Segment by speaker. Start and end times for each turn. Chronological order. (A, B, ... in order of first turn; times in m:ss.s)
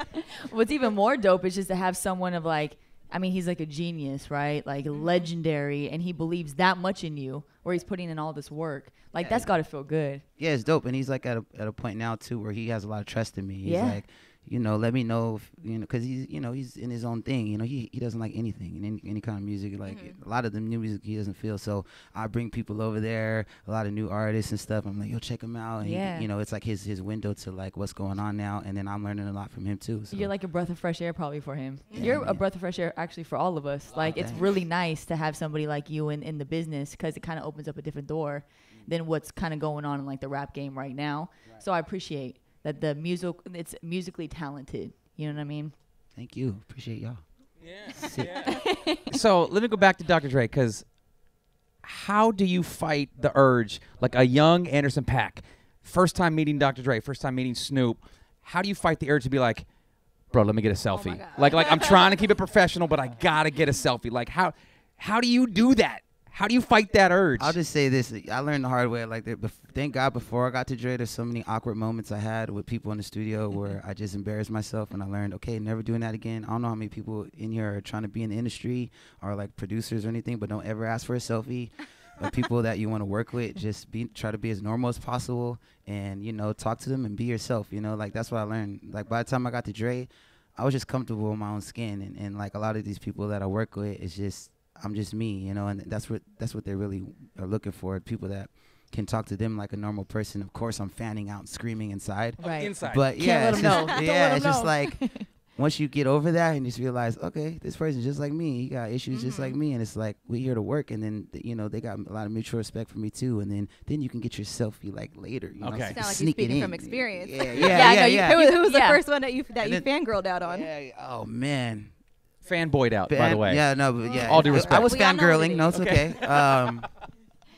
0:00.4-0:10.2 A
0:09.1-0:09.5 B
0:10.4-0:30.3 B
0:13.6-0:14.0 A
0:19.8-0:20.2 C
0:25.8-0:26.3 A
0:30.1-0:45.7 A
0:31.9-0:32.2 C
0:32.0-0:32.4 B
0:34.0-0:34.5 B
0:46.1-0:47.2 B
0:47.6-0:50.9 D
0:47.9-0:48.5 B
0:48.4-0:49.1 A
0:51.8-0:59.7 D
1:00.3-1:07.6 D
1:00.9-1:02.2 C
1:07.4-1:58.4 B
1:42.4-1:45.3 A
1:42.4-1:43.0 D
1:49.1-1:49.6 C
1:55.6-1:56.0 D
1:55.9-2:00.7 C
1:57.5-1:57.8 D
1:57.7-1:59.0 A
1:59.6-1:59.8 B
2:00.4-2:01.9 B
2:02.4-2:03.6 D
2:03.1-2:06.9 B
2:04.0-2:05.8 C
2:04.2-2:04.9 D
2:05.7-2:06.7 D